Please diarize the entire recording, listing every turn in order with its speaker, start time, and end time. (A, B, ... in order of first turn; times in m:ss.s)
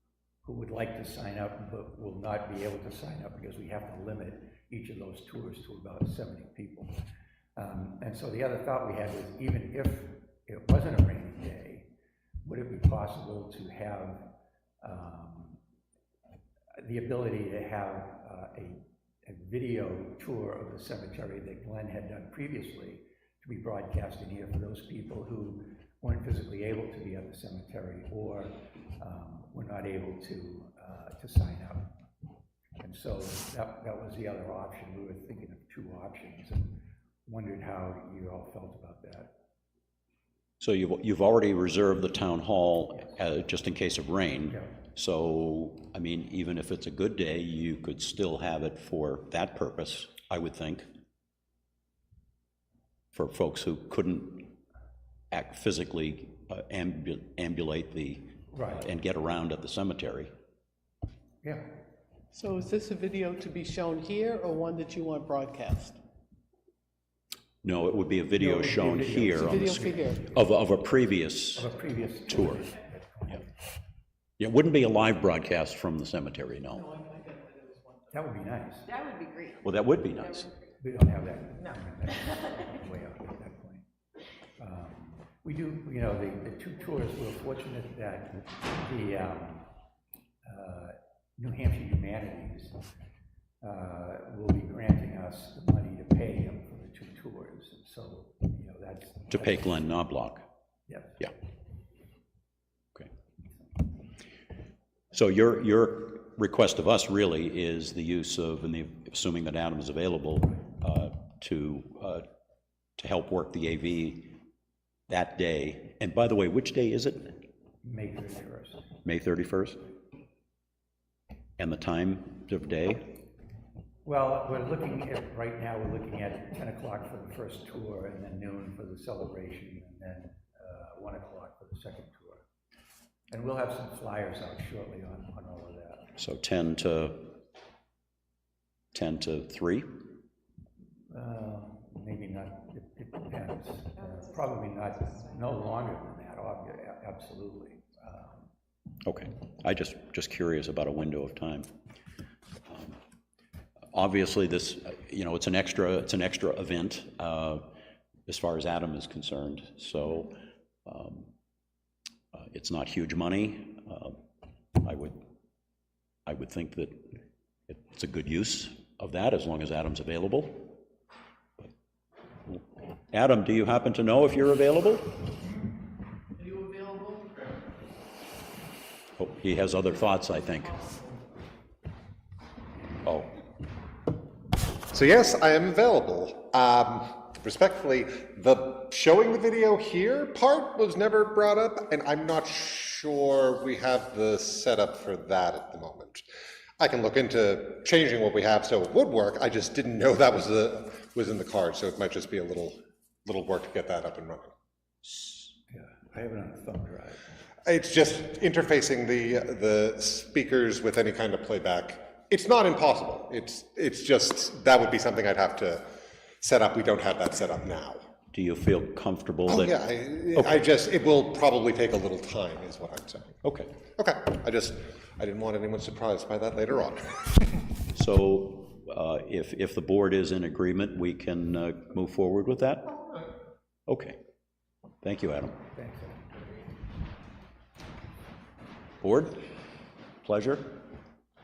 0:00.4-0:07.0 A
0:07.6-0:11.9 A
0:12.4-0:15.6 A
0:16.8-0:31.9 A
0:32.8-0:39.3 A
0:40.6-0:50.8 B
0:53.1-0:54.6 B
0:55.3-1:00.3 B
0:58.5-0:58.8 A
1:01.4-1:01.7 A
1:02.3-1:06.0 C
1:07.6-1:11.7 B
1:08.4-1:10.5 A
1:09.3-1:10.3 C
1:11.6-1:13.5 A
1:12.2-1:12.7 B
1:14.4-1:16.8 B
1:16.7-1:18.2 C
1:18.1-1:18.9 A
1:18.8-1:20.7 D
1:19.6-1:20.5 B
1:20.8-1:23.8 A
1:24.6-1:29.7 A
1:30.4-1:32.8 A
1:33.6-1:39.8 A
1:39.3-1:40.4 B
1:40.9-1:41.3 A
1:45.1-1:52.2 B
1:53.0-1:54.4 B
1:55.1-1:57.4 B
1:57.8-1:58.9 A
1:59.0-1:59.8 B
2:01.6-2:03.2 B
2:04.0-2:12.4 A
2:13.3-2:16.2 A
2:16.2-2:17.4 B
2:18.9-2:19.9 B
2:21.1-2:28.5 A
2:24.0-2:25.6 D
2:29.0-2:31.7 B
2:32.7-2:33.0 B
2:33.9-2:37.7 B
2:38.3-2:41.3 B
2:42.3-2:44.2 B
2:44.8-2:45.2 B
2:46.2-2:47.0 B
2:47.7-2:50.8 B
2:52.5-2:55.4 B
2:56.4-2:57.3 C
2:59.2-3:00.9 B
3:03.0-3:03.4 B
3:04.9-3:16.3 E
3:16.8-3:24.5 E
3:25.0-3:27.2 A
3:27.6-3:35.8 E
3:36.4-3:38.0 E
3:38.3-3:40.6 B
3:39.5-3:43.4 E
3:43.4-3:43.7 B
3:44.0-3:47.5 E
3:47.9-3:52.9 B
3:53.9-3:54.2 B
3:55.0-3:55.6 B
3:55.7-3:56.7 A
3:59.0-3:59.4 B
4:00.2-4:00.8 B